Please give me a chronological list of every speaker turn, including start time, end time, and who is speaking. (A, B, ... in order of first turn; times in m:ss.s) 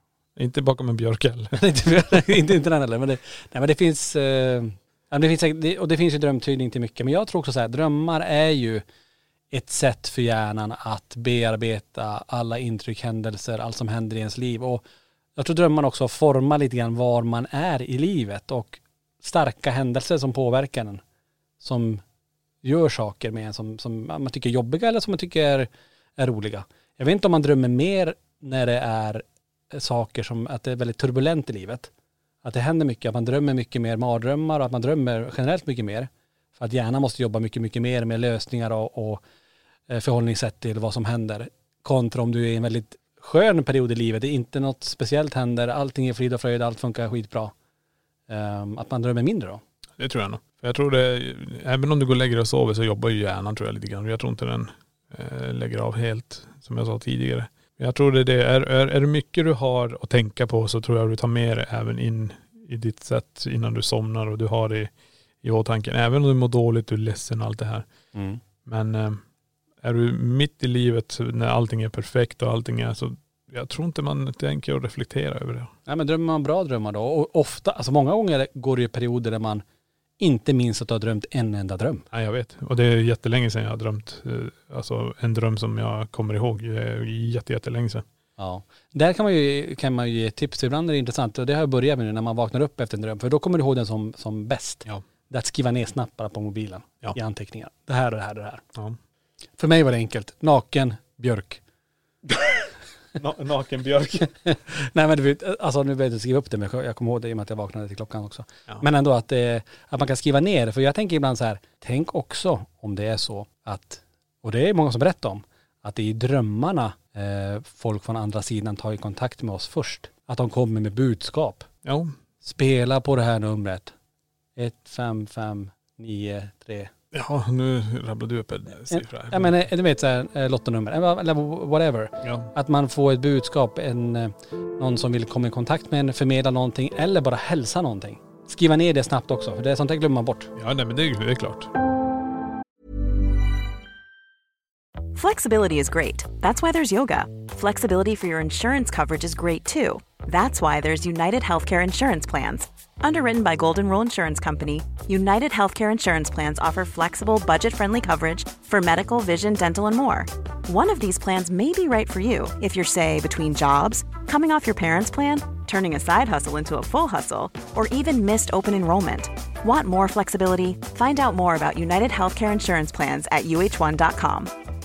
0:00.4-0:01.6 A
0:01.6-0:08.8 B
0:09.5-0:14.8 B
0:15.4-0:21.0 B
0:21.6-0:22.0 B
0:22.6-0:31.9 B
0:32.4-0:39.2 B
0:39.9-0:47.5 B
0:48.3-0:49.6 B
0:50.0-1:04.9 A
1:05.4-1:07.9 A
1:08.1-1:08.4 B
1:08.6-1:09.2 A
1:09.8-1:15.7 A
1:15.9-1:19.6 B
1:20.2-1:22.1 B
1:22.1-1:28.0 A
1:28.4-1:38.6 B
1:39.6-1:41.6 B
1:43.2-1:44.4 A
1:44.4-2:01.7 B
2:01.8-2:02.1 A
2:02.4-2:03.9 B
2:04.6-2:06.9 B
2:07.1-2:09.6 A
2:08.9-2:20.5 B
2:12.2-2:12.5 A
2:20.6-2:21.7 A
2:25.1-2:54.5 C